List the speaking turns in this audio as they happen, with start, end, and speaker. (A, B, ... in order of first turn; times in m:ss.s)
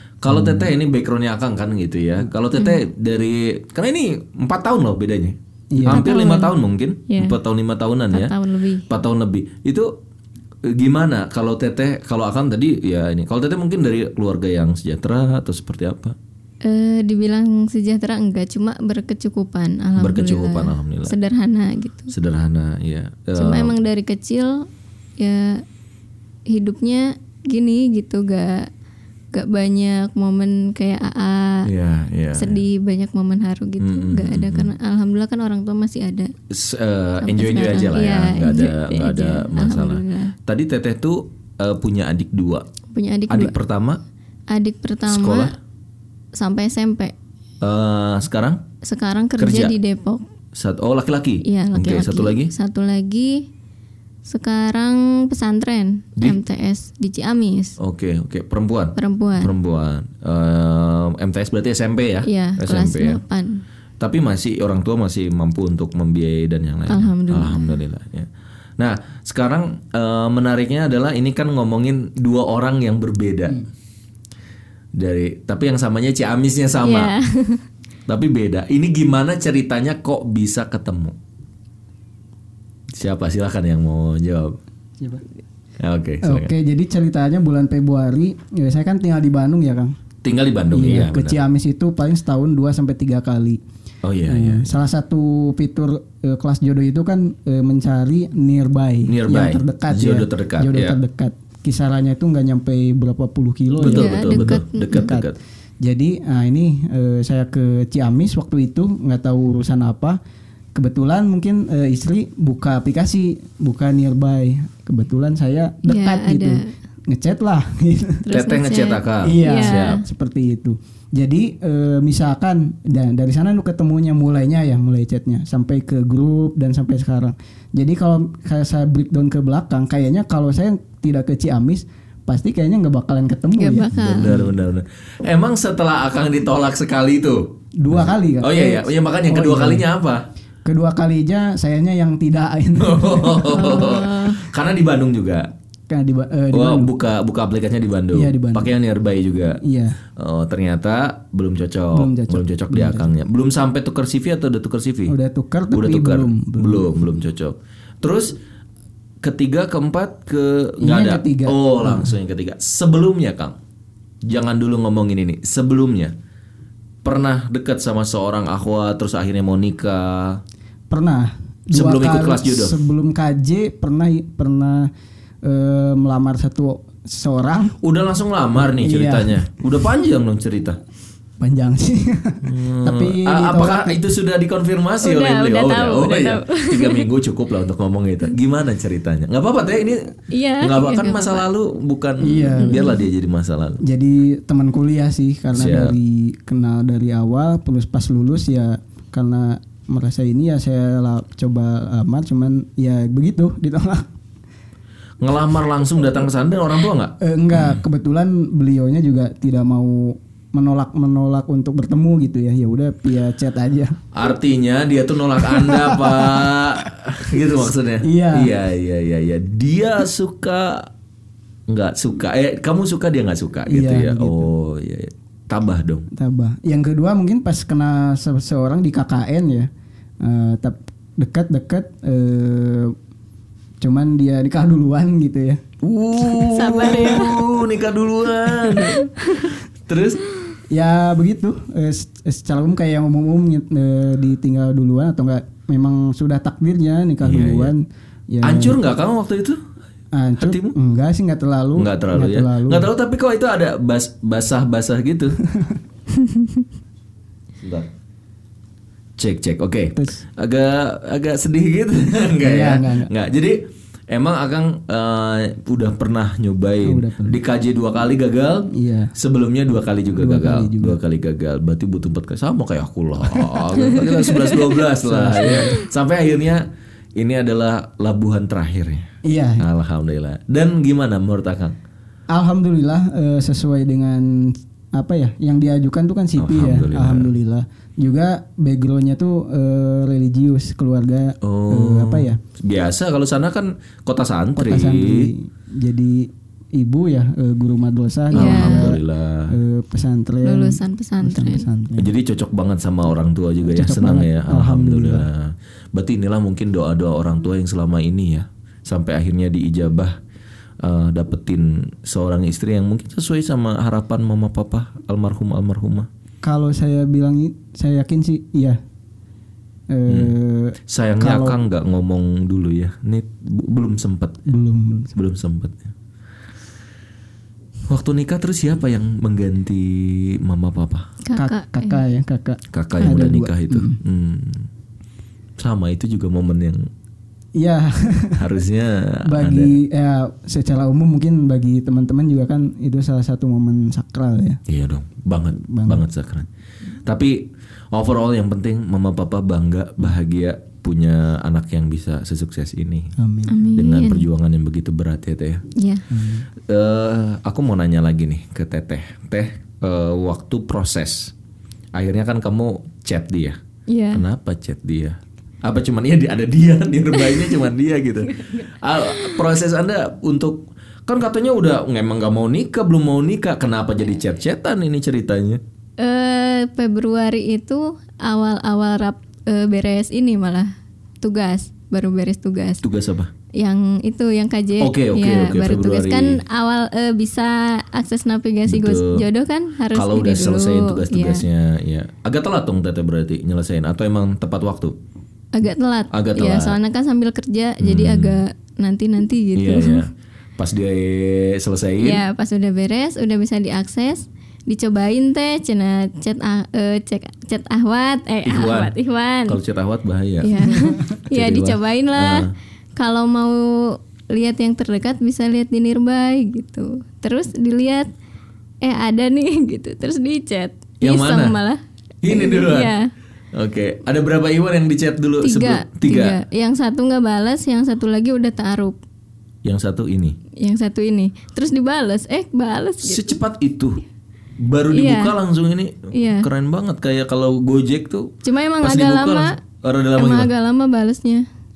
0:00.2-0:08.3 A
0:00.3-0:00.7 B
0:02.6-0:02.8 C
0:05.7-0:06.1 B
0:05.9-0:06.5 C
0:07.1-0:07.4 C
0:08.1-0:08.9 C
0:08.9-0:09.9 A
0:10.6-0:16.2 A
0:16.6-0:22.1 C
0:20.0-0:21.1 A
0:22.1-0:23.8 A
0:23.4-0:24.7 C
0:25.2-0:25.6 C
0:26.5-0:28.7 C
0:29.3-0:31.7 C
0:31.6-0:32.6 A
0:32.4-0:36.3 C
0:33.8-0:34.7 A
0:36.5-0:42.6 A
0:37.2-0:40.3 C
0:42.9-0:43.5 C
0:43.3-0:44.0 A
0:44.5-0:45.5 C
0:45.1-0:45.5 A
0:46.4-0:47.1 C
0:47.6-0:48.6 A
0:48.8-0:50.2 C
0:49.4-0:49.7 A
0:50.5-0:52.5 A
0:51.4-0:53.4 C
0:54.2-0:57.8 C
0:57.8-1:03.2 A
0:59.0-0:59.5 C
1:02.2-1:03.6 C
1:04.0-1:13.6 A
1:06.9-1:07.8 C
1:15.0-1:17.1 A
1:16.8-1:17.6 C
1:18.1-1:21.2 A
1:22.9-1:24.6 A
1:25.8-1:26.5 A
1:26.2-1:29.9 B
1:30.2-1:31.4 A
1:30.7-1:33.6 B
1:34.0-1:34.7 A
1:34.2-1:50.2 B
1:39.1-1:41.0 A
1:43.8-1:45.4 A
1:43.8-1:45.1 C
1:50.7-1:58.2 B
1:55.9-1:56.7 C
1:58.2-2:00.0 C
1:58.3-2:00.0 A
1:59.2-2:14.5 B
2:13.6-2:14.3 C
2:13.9-2:20.2 A
2:17.8-2:19.9 B
2:20.6-2:24.0 B
2:22.8-2:25.5 A
2:23.5-2:24.4 C
2:25.9-2:26.9 B
2:26.5-2:29.6 A
2:28.1-2:28.7 B
2:29.6-2:30.0 B
2:30.2-2:35.1 A
2:31.9-2:33.1 B
2:35.1-2:37.0 B
2:35.7-2:38.4 A
2:39.2-2:43.6 A
2:40.8-2:42.2 B
2:44.2-2:46.1 A
2:47.0-2:50.4 A
2:50.9-2:54.9 B
2:51.7-2:52.8 A
2:55.4-2:57.7 B
2:57.8-3:00.8 A
2:58.7-2:59.5 B
3:01.4-3:04.0 B
3:02.4-3:13.8 A
3:05.0-3:07.1 C
3:10.3-3:11.4 C
3:12.2-3:13.0 B
3:12.6-3:13.0 C
3:13.8-3:24.1 B
3:15.5-3:16.0 A
3:25.2-3:27.8 A
3:27.2-3:34.0 B
3:34.1-3:40.9 A
3:35.4-3:36.7 B
3:38.0-3:38.5 B
3:41.7-3:46.1 A
3:43.6-3:44.5 B
3:46.1-3:49.7 B
3:50.2-3:52.9 B
3:53.8-3:55.6 B
3:55.8-4:00.2 A
3:56.5-3:57.5 C
3:58.8-3:59.5 C
4:00.7-4:08.8 B
4:07.2-4:07.7 A
4:08.4-4:09.6 A
4:10.1-4:12.9 B
4:10.4-4:10.7 A
4:11.8-4:15.4 A
4:17.6-4:17.9 A
4:19.2-4:41.8 A
4:20.0-4:20.2 B
4:22.4-4:23.1 B
4:26.8-4:27.4 B
4:28.7-4:29.1 B
4:30.1-4:31.0 B
4:33.3-4:34.0 B
4:35.0-4:35.8 B
4:39.2-4:39.6 B
4:42.3-4:52.4 B
4:46.4-4:47.3 A
4:51.4-4:55.3 A
4:54.6-5:02.1 B
4:58.3-4:58.9 C
4:58.3-4:59.5 A
5:00.4-5:01.7 C
5:02.0-5:10.2 A
5:03.6-5:05.3 B
5:10.8-5:16.1 A
5:16.4-5:18.8 B
5:19.9-5:21.6 B
5:20.1-5:20.3 A
5:20.9-5:24.4 A
5:24.4-5:25.1 B
5:25.1-5:25.9 A
5:27.9-5:31.1 A
5:31.2-5:32.0 C
5:31.3-5:34.0 B
5:32.7-5:34.7 A
5:35.6-5:36.9 A
5:37.5-5:38.5 B
5:38.4-5:39.7 A
5:39.2-5:44.6 B
5:44.7-5:46.5 A
5:45.6-5:46.0 B
5:47.0-5:53.1 A
5:53.2-5:53.8 B
5:53.5-5:54.3 C
5:53.7-5:55.6 A
5:55.8-5:56.0 C
5:56.1-5:56.5 B
5:56.6-6:01.3 A
6:01.9-6:03.6 A
6:03.9-6:04.2 C
6:04.1-6:15.6 A
6:07.2-6:07.5 C
6:08.2-6:09.4 C
6:16.0-6:22.8 C
6:22.8-6:23.3 A
6:23.6-6:31.4 C
6:24.8-6:26.4 A
6:28.6-6:29.2 A
6:29.9-6:35.0 A
6:35.5-6:40.0 C
6:36.1-6:36.8 A
6:37.8-6:38.4 A
6:39.5-6:42.2 A
6:42.0-6:49.6 C
6:48.4-6:48.9 A
6:49.5-6:52.5 A
6:50.4-6:58.1 C
6:58.8-7:03.1 C
7:01.0-7:01.6 A
7:02.2-7:02.9 A
7:03.5-7:06.4 A
7:05.4-7:09.0 C
7:09.6-7:10.4 A
7:10.6-7:13.4 C
7:13.0-7:14.0 A
7:14.6-7:20.5 A
7:14.9-7:15.4 C
7:16.1-7:16.5 C
7:18.4-7:19.6 C
7:20.2-7:21.4 C